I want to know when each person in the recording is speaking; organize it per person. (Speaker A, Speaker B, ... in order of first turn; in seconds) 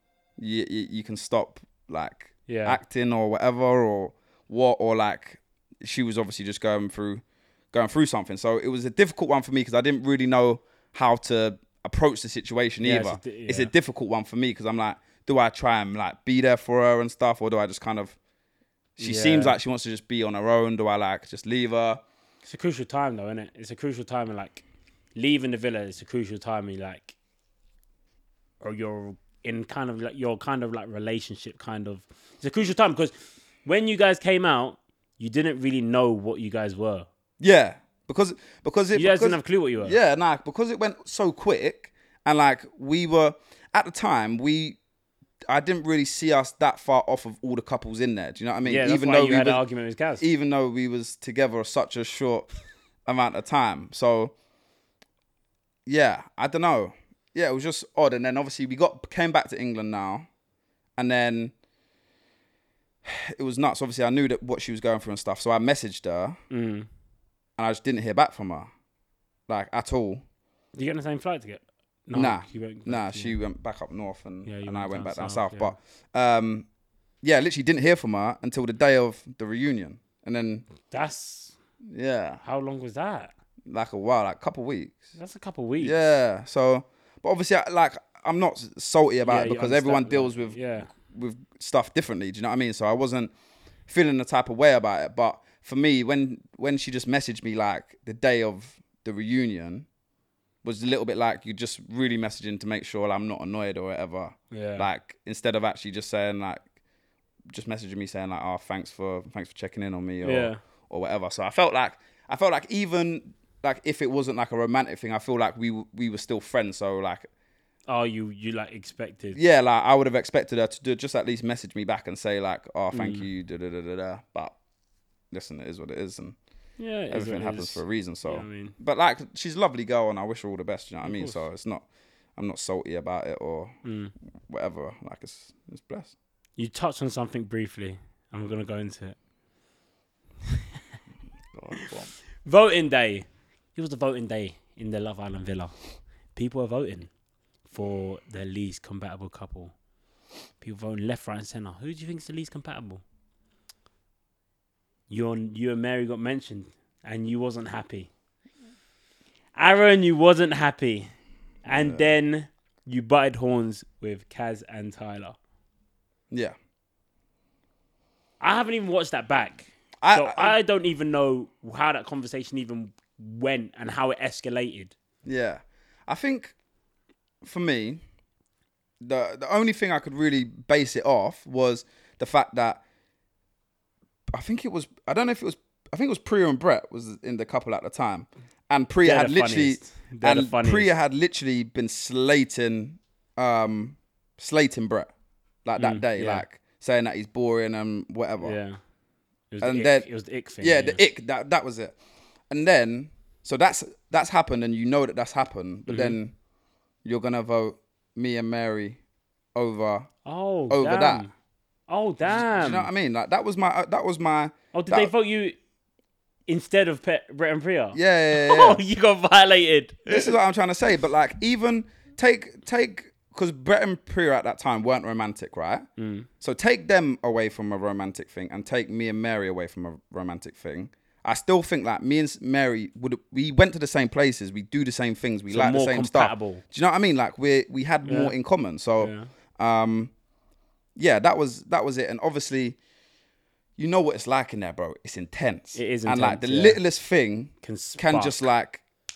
Speaker A: 0.4-18.2, 19.0-22.0, 37.4-44.8, 45.5-49.6, 50.2-52.5, 53.1-54.3, 55.9-60.3, 61.0-61.5, 63.0-66.4, 67.6-68.7, 69.5-70.2, 72.1-76.7, 77.2-80.7, 81.9-82.4, 83.7-85.0, 85.8-93.3, 93.9-99.9, 100.6-106.6, 107.5-117.3, 119.3-124.5, 125.3-126.4, 127.1-131.8, 132.4-133.7, 134.5-136.1, 141.5-142.1, 161.7-162.1, 170.0-170.6, 175.2-176.5, 177.4-178.0, 179.0-182.8, 184.3-195.1, 195.7-198.6, 199.6-200.1, 200.6-202.0, 202.5-206.3, 207.1-209.0, 209.6-210.1, 210.7-211.2, 212.3-215.1, 217.9-218.8, 220.1-225.9, 226.4-240.1, 241.0-242.8, 243.8-248.8
Speaker B: 2.5-2.8, 12.8-13.7, 19.0-19.6, 22.4-24.6, 25.1-27.1, 28.6-33.1, 33.6-37.1, 38.9-40.0, 48.6-50.2, 66.5-66.9, 70.7-73.4, 74.5-75.8, 80.9-81.6, 82.4-83.3, 85.2-86.0, 89.2-90.9, 104.5-104.9, 110.2-110.6, 117.9-119.4, 122.9-123.3, 126.8-128.8, 131.0-131.4, 133.8-134.1, 136.6-139.2, 142.4-145.8, 146.3-147.1, 147.7-149.7, 150.6-153.0, 155.1-158.1, 159.6-161.1, 161.7-165.4, 168.4-174.9, 189.0-190.9, 195.8-196.4, 198.4-198.8, 199.5-201.0, 205.9-206.2, 210.2-211.3, 211.9-212.9, 214.7-215.6, 216.5-220.3, 226.0-226.3, 235.5-236.6, 238.1-238.3, 239.0-239.3, 245.8-246.8, 247.6-248.5